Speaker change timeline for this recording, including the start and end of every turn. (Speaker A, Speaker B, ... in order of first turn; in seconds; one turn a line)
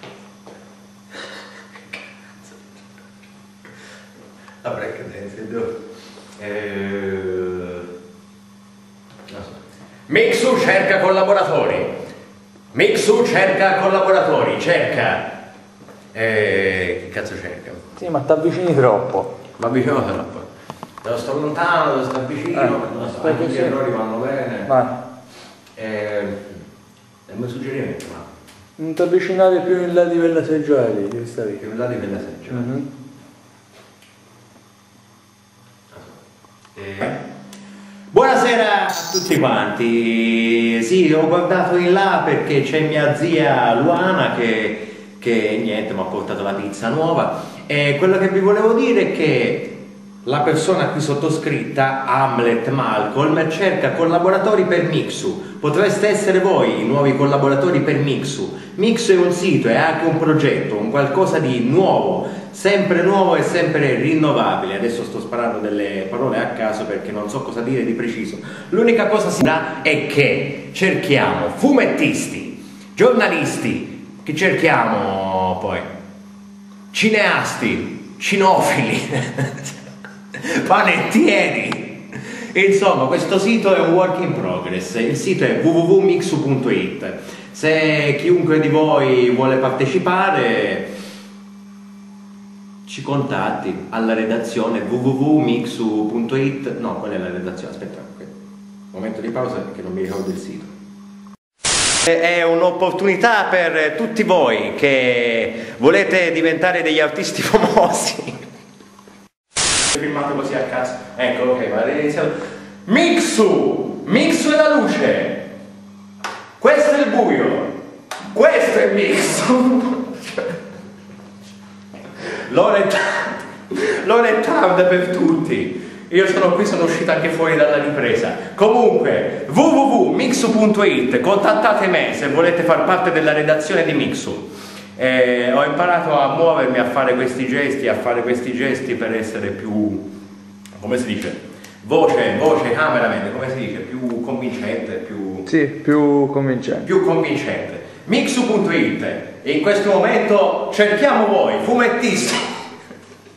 Speaker A: 1.9-2.5
Speaker A: 4.6-5.8
Speaker A: 6.4-7.9
Speaker A: 9.3-11.9
Speaker A: 12.7-15.3
Speaker A: 16.1-17.8
Speaker B: 18.0-19.3
Speaker A: 19.6-20.5
Speaker A: 21.0-24.7
Speaker B: 22.6-23.8
Speaker B: 24.7-25.0
Speaker A: 25.8-26.6
Speaker A: 27.3-28.3
Speaker B: 28.8-31.6
Speaker A: 31.6-32.7
Speaker B: 32.5-32.9
Speaker A: 35.9-36.2
Speaker A: 36.8-37.2
Speaker A: 38.1-75.9
Speaker A: 76.9-79.8
Speaker A: 80.3-90.9
Speaker A: 92.9-98.3
Speaker A: 98.9-100.7
Speaker A: 102.0-108.4
Speaker A: 109.9-112.3
Speaker A: 112.9-115.5
Speaker A: 116.6-117.7
Speaker A: 118.3-120.5
Speaker A: 122.5-140.1
Speaker A: 140.8-145.5
Speaker B: 145.5-146.9
Speaker A: 146.8-152.7